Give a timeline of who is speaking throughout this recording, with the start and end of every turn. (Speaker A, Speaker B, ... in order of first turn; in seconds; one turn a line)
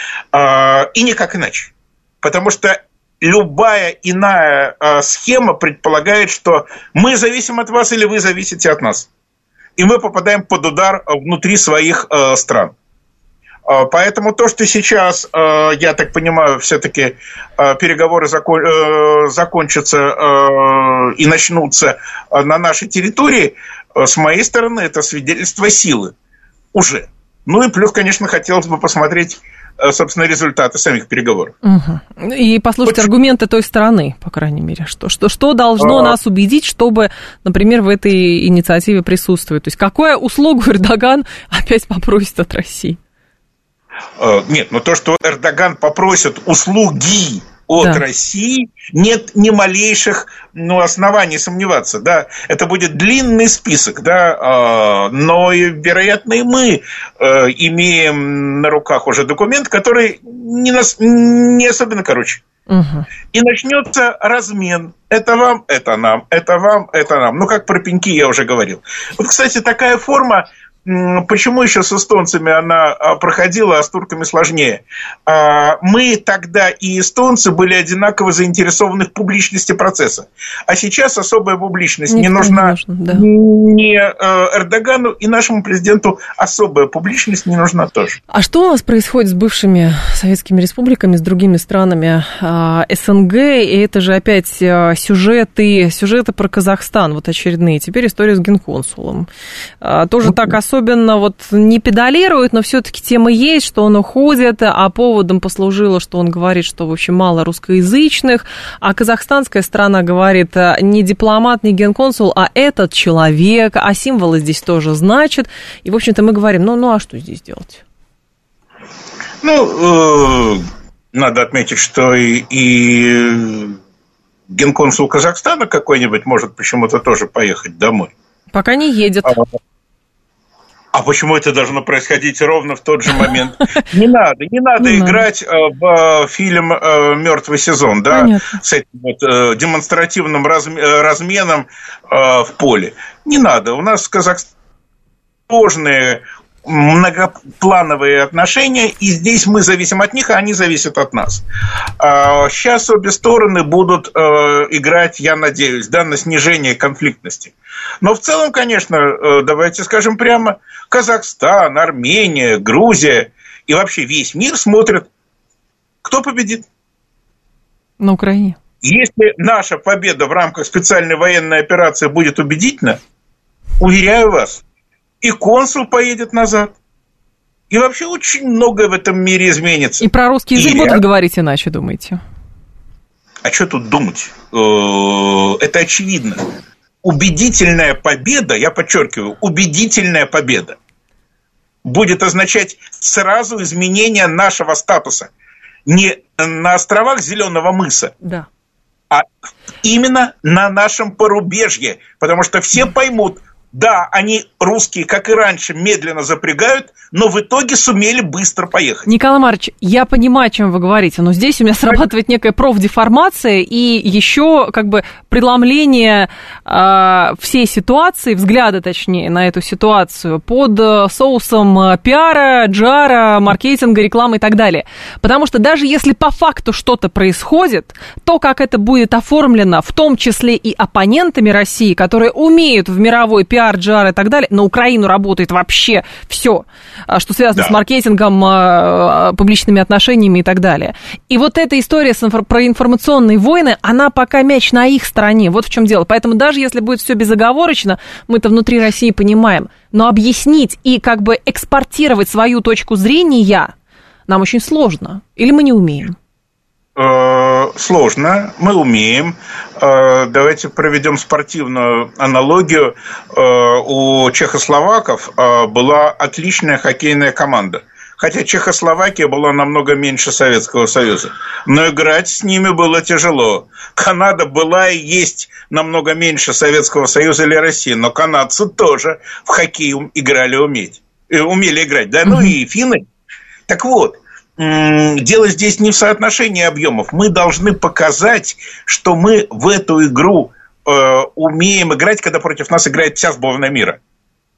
Speaker A: 0.3-9.1
Speaker A: 9.8-12.7
Speaker A: 13.7-26.1
Speaker A: 26.7-31.5
Speaker B: 31.6-43.0
Speaker A: 35.8-36.2
Speaker A: 44.2-62.4
Speaker B: 62.7-63.1
Speaker A: 63.3-88.2
Speaker B: 82.1-83.2
Speaker B: 88.3-99.3
Speaker B: 99.8-117.8
Speaker A: 119.4-123.8
Speaker A: 124.5-128.1
Speaker B: 128.5-129.3
Speaker A: 130.9-144.5
Speaker B: 134.8-135.2
Speaker B: 138.1-138.6
Speaker A: 145.5-151.4
Speaker A: 152.0-165.1
Speaker A: 166.0-166.7
Speaker B: 168.0-168.6
Speaker A: 168.8-173.0
Speaker A: 173.8-174.6
Speaker A: 175.2-176.8
Speaker A: 177.7-181.0
Speaker B: 180.0-182.2
Speaker A: 183.4-186.4
Speaker A: 187.0-190.8
Speaker A: 191.8-195.3
Speaker A: 195.9-198.1
Speaker A: 199.8-209.1
Speaker B: 209.1-253.7
Speaker B: 254.3-256.2
Speaker A: 257.0-283.1
Speaker B: 282.3-282.5
Speaker A: 283.7-294.0